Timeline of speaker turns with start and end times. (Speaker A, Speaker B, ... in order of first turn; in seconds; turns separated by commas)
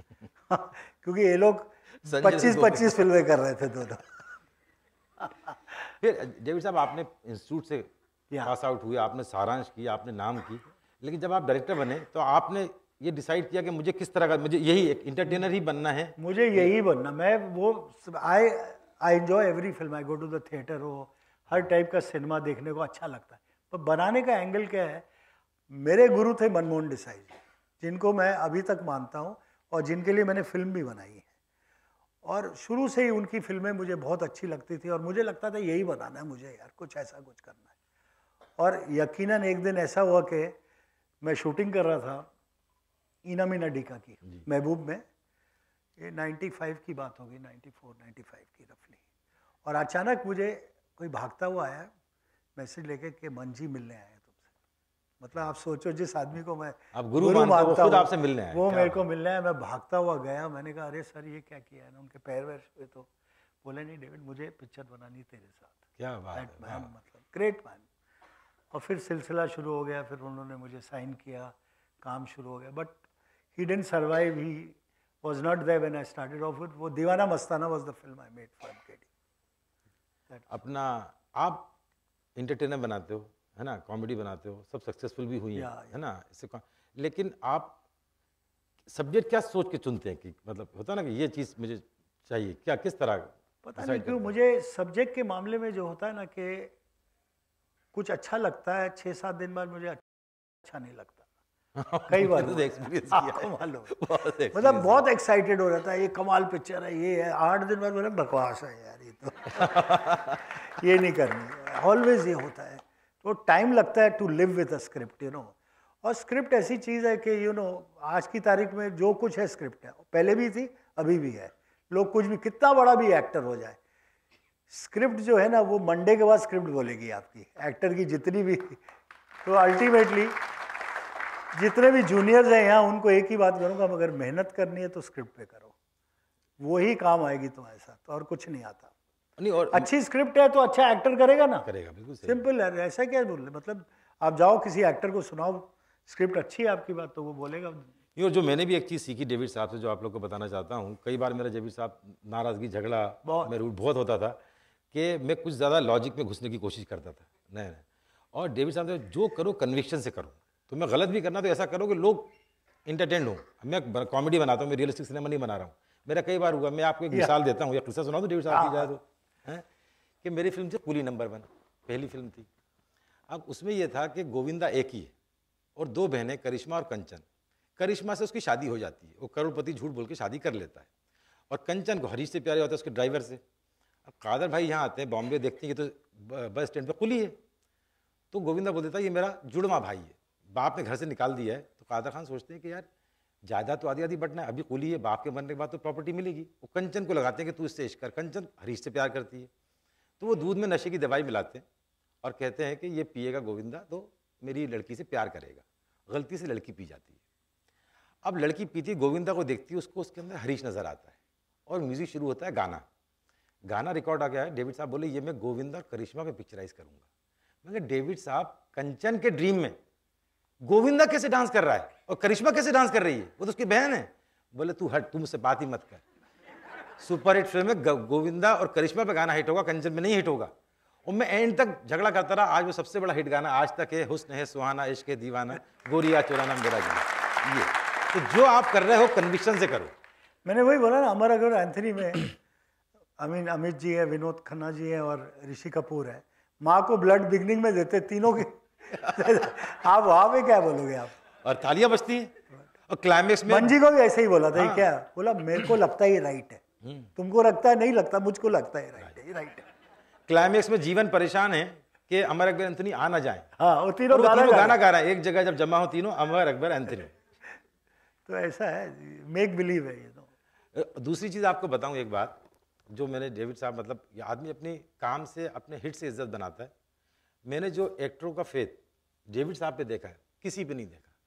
Speaker A: 0.5-4.0, Speaker B: 2.0-3.0, Speaker B: 6.0-7.9, Speaker B: 8.4-16.7, Speaker A: 16.2-25.1, Speaker A: 25.7-31.3, Speaker A: 32.2-37.7, Speaker A: 38.6-40.5, Speaker A: 41.2-42.3, Speaker A: 43.2-45.0, Speaker A: 46.0-49.0, Speaker A: 49.6-51.9, Speaker A: 52.5-54.4, Speaker A: 55.2-63.1, Speaker B: 56.9-59.0, Speaker A: 63.6-65.8, Speaker B: 66.0-66.9, Speaker A: 66.3-67.8, Speaker A: 68.7-73.0, Speaker A: 73.5-79.0, Speaker B: 80.5-81.7, Speaker B: 82.3-87.7, Speaker A: 85.5-85.9, Speaker B: 88.9-94.3, Speaker A: 93.6-96.7, Speaker A: 97.9-100.1, Speaker A: 100.6-101.2, Speaker B: 101.8-105.0, Speaker A: 102.1-103.9, Speaker A: 104.5-123.8, Speaker B: 109.5-110.4, Speaker A: 124.7-128.8, Speaker A: 129.4-130.4, Speaker A: 131.5-135.7, Speaker A: 136.6-138.9, Speaker B: 139.4-139.9, Speaker A: 139.7-141.7, Speaker B: 141.7-142.4, Speaker A: 142.2-147.9, Speaker B: 148.2-154.4, Speaker A: 153.2-153.5, Speaker B: 154.9-157.8, Speaker B: 158.3-162.3, Speaker B: 162.8-169.6, Speaker A: 168.5-168.9, Speaker B: 170.2-172.5, Speaker B: 173.3-175.1, Speaker B: 175.8-177.2, Speaker B: 177.8-180.9, Speaker B: 181.5-183.4, Speaker B: 184.1-187.3, Speaker B: 188.3-192.8, Speaker B: 193.4-199.5, Speaker B: 200.2-201.6, Speaker B: 202.2-207.2, Speaker B: 208.2-211.1, Speaker B: 211.7-212.8, Speaker B: 213.7-217.0, Speaker B: 217.6-219.8, Speaker B: 220.6-226.0, Speaker B: 227.0-230.5, Speaker B: 231.1-239.9, Speaker A: 240.4-242.3, Speaker A: 243.2-251.1, Speaker B: 251.4-252.3, Speaker B: 252.9-253.8, Speaker A: 253.5-256.6, Speaker B: 254.5-254.9, Speaker B: 256.8-257.1, Speaker A: 257.1-259.6, Speaker B: 260.3-263.5, Speaker A: 263.6-264.8, Speaker B: 264.1-267.1, Speaker A: 268.2-270.3, Speaker B: 270.7-272.4, Speaker B: 272.9-276.7, Speaker B: 277.4-281.1